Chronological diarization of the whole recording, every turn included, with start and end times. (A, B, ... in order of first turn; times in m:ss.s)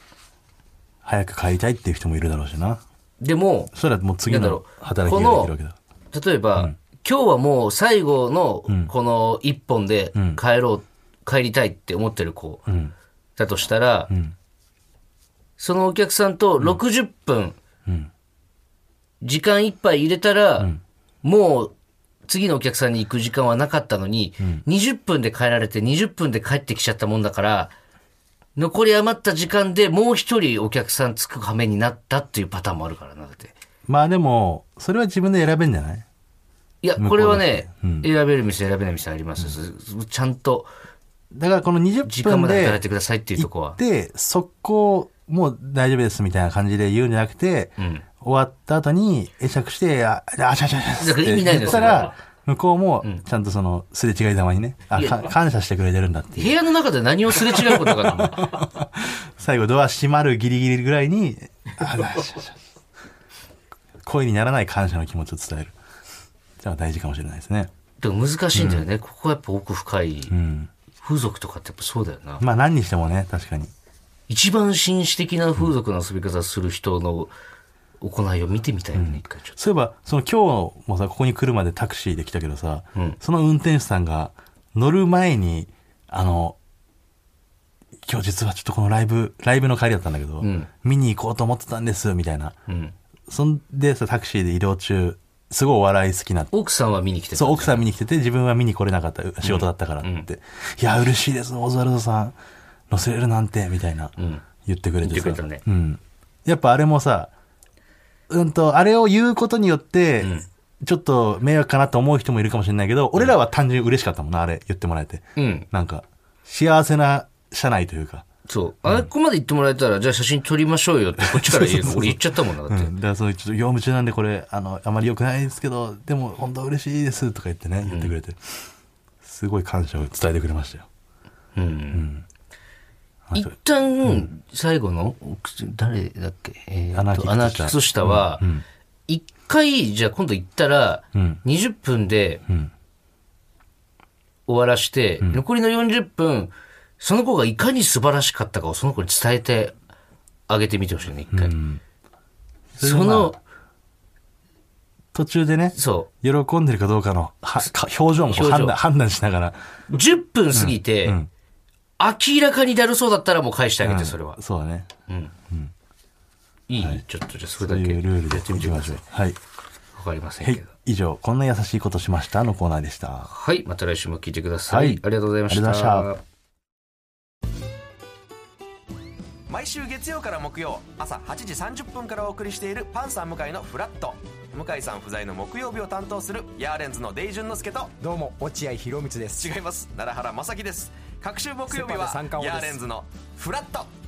0:01.0-0:02.8 A
0:03.2-0:03.7 B
0:03.7-0:05.8 A
0:04.2-0:05.5 B
0:06.1-0:12.6 B
0:12.7-0:12.9 A
0:13.4-0:14.1 B
0:15.6-0:17.6 B
0:19.2-0:21.7 B
0:22.3-0:27.7 B
0:28.6-0:33.5 B
0:33.9-0:36.0 A
0:36.8-0:40.7 B
0:37.0-0:38.1 A
0:41.3-0:42.8 A
0:42.0-0:43.8 B
0:43.4-0:56.6 A
0:47.8-0:48.0 B
0:51.0-0:52.1 B
0:54.9-0:55.2 B
0:56.4-0:58.5 B
0:57.3-1:02.6 A
1:04.0-1:05.7 A
1:06.6-1:07.7 A
1:08.0-1:10.3 B
1:08.5-1:08.8 A
1:10.3-1:10.7 A
1:11.0-1:12.4 B
1:12.4-1:13.7 A
1:14.3-1:17.3 B
1:18.0-1:19.6 B
1:18.9-1:26.6 A
1:28.0-1:32.6 A
1:30.4-1:30.7 B
1:32.7-1:32.9 B
1:33.3-1:36.5 A
1:36.5-1:37.8 B
1:37.3-1:42.4 A
1:39.4-1:40.2 B
1:42.9-1:47.3 A
1:44.2-1:44.4 B
1:45.0-1:45.6 B
1:48.3-1:58.2 A
1:50.2-1:50.5 B
1:55.4-1:55.7 B
1:58.5-2:02.9 B
2:01.2-2:08.6 A
2:07.8-2:08.1 B
2:09.2-2:10.9 A
2:11.5-2:12.1 B
2:11.9-2:12.2 A
2:13.3-2:18.5 B
2:16.9-2:18.6 A
2:19.1-2:22.4 B
2:21.1-2:21.4 A
2:22.5-2:22.7 A
2:24.4-2:29.7 B
2:30.5-2:31.5 B
2:31.3-2:31.8 A
2:32.8-2:33.3 A
2:32.8-2:33.4 B
2:35.1-2:39.6 A
2:35.7-2:36.1 B
2:38.2-2:38.8 B
2:39.9-2:41.2 B
2:40.5-2:41.3 A
2:42.0-2:44.4 B
2:43.8-2:44.9 A
2:45.1-2:45.3 B
2:46.7-2:49.0 B
2:47.6-2:49.4 A
2:50.0-2:50.7 B
2:50.4-2:53.3 A
2:53.3-2:56.2 B
2:54.7-2:56.1 A
2:59.5-3:08.0 C
3:08.0-3:09.5 D
3:09.4-3:13.9 C
3:11.7-3:12.8 D